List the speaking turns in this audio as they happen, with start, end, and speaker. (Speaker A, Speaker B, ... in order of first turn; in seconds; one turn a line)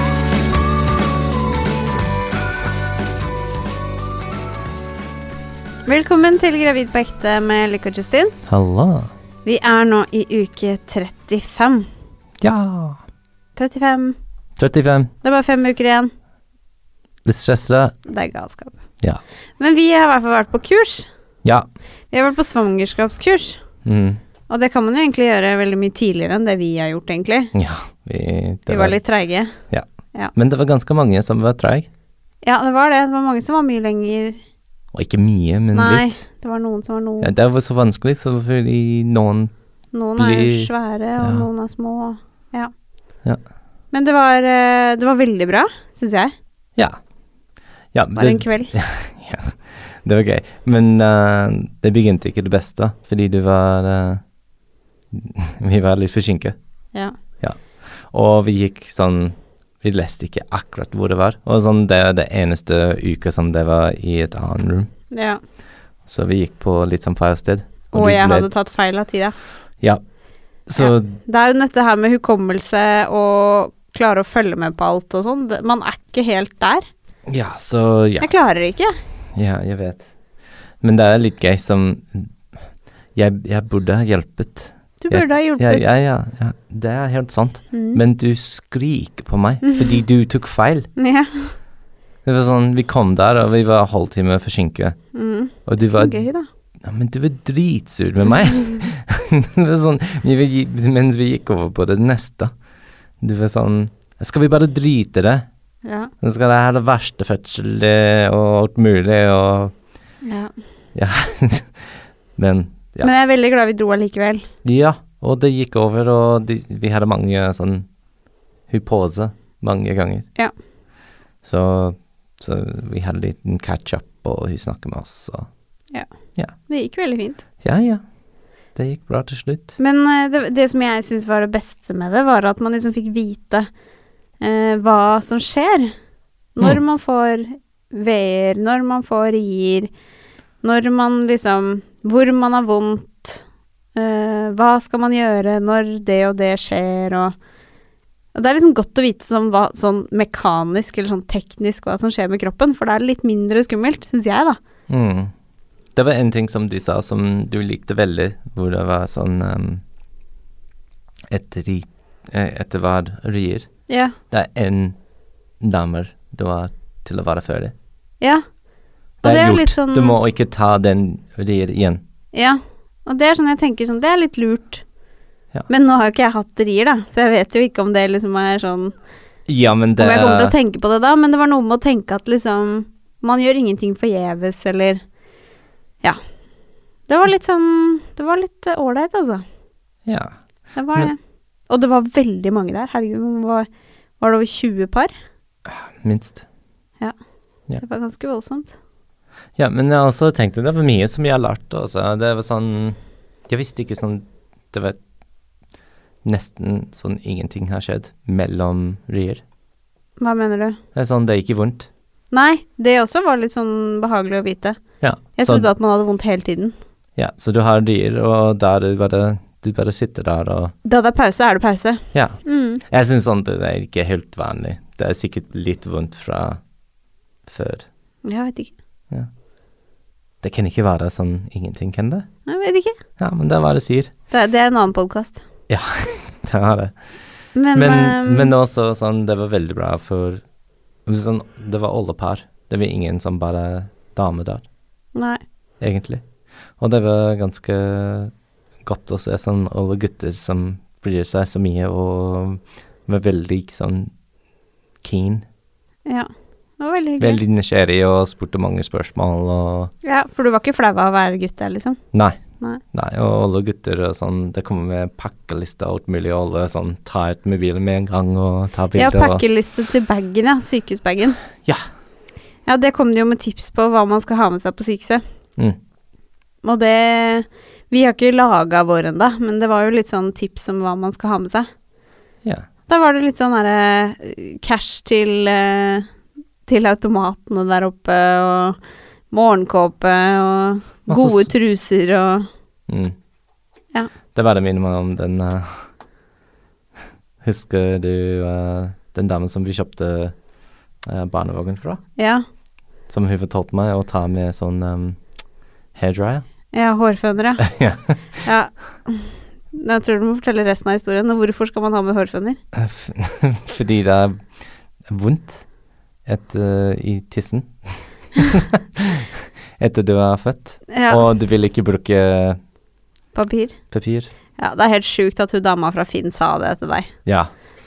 Speaker A: 5.8-8.3
Speaker B: 8.5-9.1
Speaker A: 9.4-11.9
Speaker B: 12.4-13.0
Speaker A: 13.6-14.2
Speaker B: 14.6-15.1
Speaker A: 15.2-16.1
Speaker B: 17.2-17.9
Speaker A: 18.1-18.8
Speaker A: 19.6-21.1
Speaker A: 22.1-23.6
Speaker B: 23.8-24.2
Speaker A: 24.5-27.5
Speaker B: 27.5-29.0
Speaker A: 28.7-29.6
Speaker B: 29.7-31.9
Speaker A: 32.4-34.4
Speaker B: 34.9-36.2
Speaker A: 35.7-37.3
Speaker B: 37.2-39.5
Speaker A: 39.9-42.7
Speaker B: 40.1-41.5
Speaker A: 43.9-46.3
Speaker B: 46.8-47.0
Speaker B: 47.9-54.2
Speaker A: 48.1-48.7
Speaker B: 55.1-56.5
Speaker B: 57.4-64.9
Speaker A: 65.1-65.4
Speaker B: 66.0-68.5
Speaker A: 67.9-69.3
Speaker B: 70.7-71.2
Speaker A: 70.8-76.8
Speaker B: 77.3-78.3
Speaker A: 78.2-78.9
Speaker B: 79.3-80.2
Speaker B: 80.8-90.9
Speaker A: 85.0-85.9
Speaker A: 87.7-88.0
Speaker A: 89.6-90.0
Speaker A: 91.0-91.5
Speaker B: 92.2-95.0
Speaker A: 95.1-96.5
Speaker B: 95.6-96.2
Speaker B: 96.8-102.5
Speaker B: 103.2-105.5
Speaker A: 105.8-106.1
Speaker B: 106.2-109.8
Speaker A: 110.2-110.5
Speaker B: 110.9-113.1
Speaker A: 113.0-114.5
Speaker B: 114.6-117.9
Speaker B: 118.7-120.3
Speaker B: 121.4-125.5
Speaker A: 125.9-127.4
Speaker B: 127.6-128.0
Speaker B: 128.7-129.7
Speaker A: 129.8-133.7
Speaker A: 134.4-135.9
Speaker A: 136.5-139.9
Speaker A: 140.6-147.3
Speaker A: 148.3-154.6
Speaker B: 154.9-155.3
Speaker B: 155.9-159.8
Speaker B: 161.3-163.7
Speaker A: 163.9-164.2
Speaker B: 164.3-165.0
Speaker B: 165.6-167.7
Speaker B: 169.2-172.0
Speaker A: 169.2-170.2
Speaker A: 172.3-174.8
Speaker A: 175.7-178.9
Speaker B: 179.5-180.5
Speaker A: 180.0-185.0
Speaker A: 187.1-189.4
Speaker B: 190.1-190.4
Speaker A: 190.7-193.7
Speaker A: 194.2-195.1
Speaker B: 195.7-196.4
Speaker A: 197.7-198.7
Speaker B: 199.6-205.0
Speaker B: 206.2-209.4
Speaker A: 210.2-210.8
Speaker B: 210.9-211.9
Speaker A: 212.3-214.8
Speaker B: 215.0-215.7
Speaker A: 215.3-216.7
Speaker B: 217.2-220.7
Speaker A: 220.8-222.8
Speaker B: 222.1-226.6
Speaker B: 227.4-227.9
Speaker A: 228.2-228.7
Speaker B: 230.4-232.3
Speaker A: 232.5-233.0
Speaker B: 233.2-234.1
Speaker A: 234.3-235.4
Speaker B: 235.7-237.0
Speaker A: 237.5-238.5
Speaker B: 237.7-240.4
Speaker B: 241.0-244.7
Speaker A: 245.1-245.4
Speaker B: 245.8-254.1
Speaker B: 255.0-255.4
Speaker A: 256.1-257.4
Speaker B: 257.2-259.9
Speaker A: 260.0-262.0
Speaker B: 262.1-262.4
Speaker B: 262.9-269.4
Speaker A: 268.9-271.4
Speaker A: 272.6-275.2
Speaker A: 276.6-281.7
Speaker A: 282.9-286.1
Speaker A: 286.6-288.8
Speaker A: 289.3-292.5
Speaker B: 291.1-291.5
Speaker B: 292.9-293.1
Speaker B: 294.3-295.9
Speaker B: 297.4-300.4
Speaker B: 301.0-302.0
Speaker A: 302.1-302.4
Speaker B: 303.1-305.4
Speaker B: 305.9-306.4
Speaker A: 306.7-307.8
Speaker B: 307.6-308.4
Speaker A: 308.4-312.6
Speaker B: 312.7-315.7
Speaker B: 316.2-319.2
Speaker B: 319.8-322.6
Speaker A: 320.9-321.2
Speaker A: 323.3-323.8
Speaker B: 323.9-324.3
Speaker A: 324.6-327.2
Speaker B: 327.2-327.5